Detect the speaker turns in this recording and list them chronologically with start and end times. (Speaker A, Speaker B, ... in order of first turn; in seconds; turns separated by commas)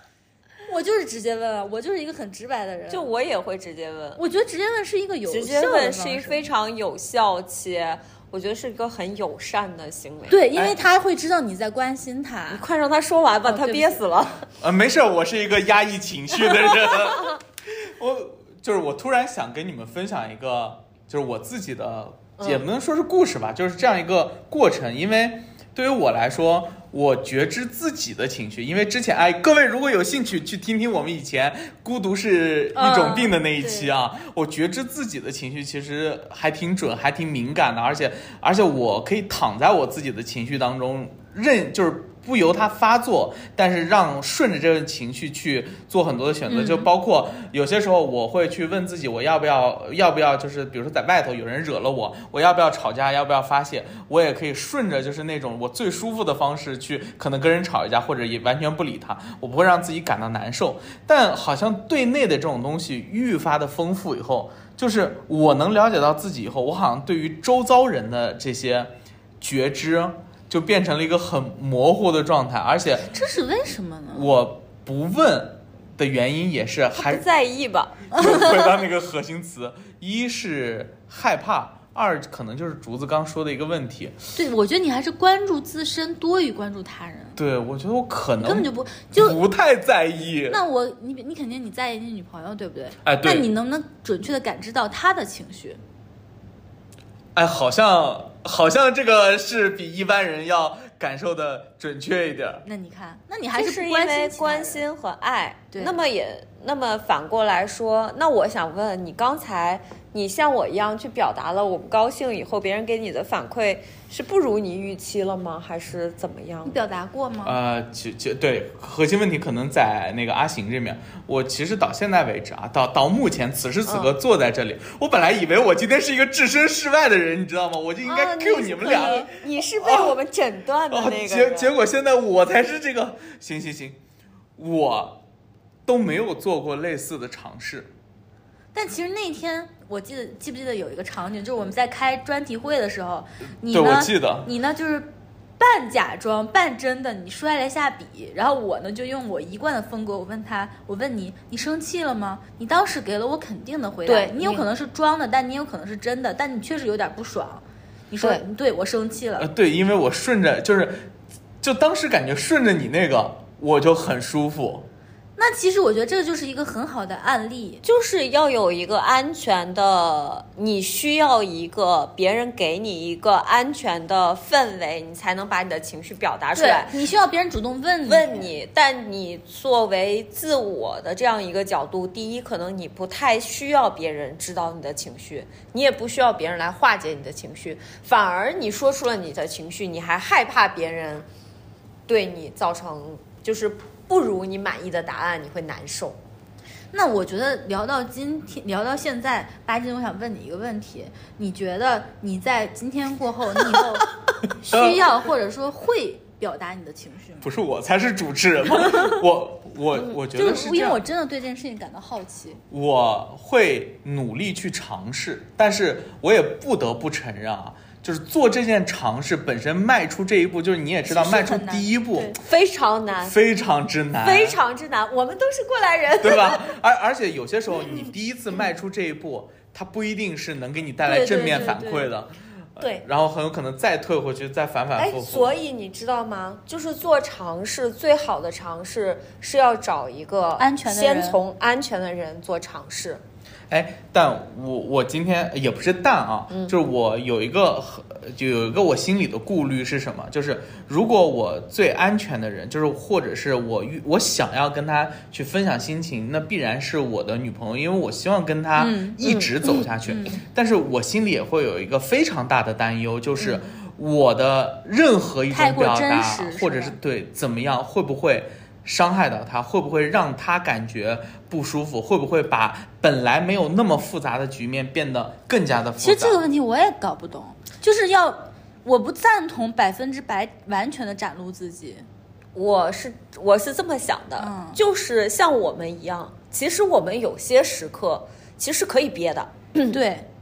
Speaker A: 0.7-3.1, Speaker B: 2.9-4.2, Speaker A: 4.2-6.4, Speaker B: 5.3-10.4, Speaker A: 10.3-12.6, Speaker B: 12.5-14.5, Speaker A: 13.5-14.0, Speaker C: 14.6-73.2, Speaker B: 22.4-22.6, Speaker A: 32.7-33.9, Speaker A: 46.5-46.9, Speaker A: 73.1-74.3, Speaker C: 74.1-77.2, Speaker B: 76.9-78.6, Speaker C: 78.1-84.2, Speaker A: 84.4-87.4, Speaker C: 87.4-90.6, Speaker A: 88.4-89.4, Speaker A: 90.5-95.8, Speaker C: 93.0-93.5, Speaker C: 97.3-102.6, Speaker A: 102.6-104.8, Speaker B: 103.5-116.8, Speaker A: 116.7-117.6, Speaker C: 117.4-130.2, Speaker B: 128.1-131.7, Speaker A: 128.8-129.3, Speaker C: 130.9-134.0, Speaker C: 134.6-135.2, Speaker C: 135.9-137.9, Speaker A: 138.7-159.5, Speaker C: 143.7-144.5, Speaker B: 154.1-154.7, Speaker C: 159.4-161.1, Speaker C: 161.6-164.9, Speaker A: 165.4-167.8, Speaker B: 167.8-176.9, Speaker A: 176.6-178.5, Speaker B: 178.1-191.3, Speaker B: 192.1-196.2, Speaker A: 196.9-207.4, Speaker C: 204.7-205.0, Speaker C: 207.4-211.0, Speaker A: 210.3-212.6, Speaker C: 212.7-222.4, Speaker A: 221.1-222.4, Speaker B: 222.4-223.4, Speaker C: 223.2-224.6, Speaker B: 224.2-226.7, Speaker C: 226.2-235.5, Speaker A: 231.1-232.1, Speaker B: 232.8-233.0, Speaker B: 235.0-243.2, Speaker A: 240.6-241.4, Speaker C: 243.7-276.4, Speaker A: 258.8-259.2, Speaker B: 259.2-259.5, Speaker A: 260.1-260.4, Speaker A: 265.5-267.0, Speaker A: 276.0-282.1, Speaker B: 282.6-289.9, Speaker A: 284.4-284.8, Speaker A: 289.9-290.3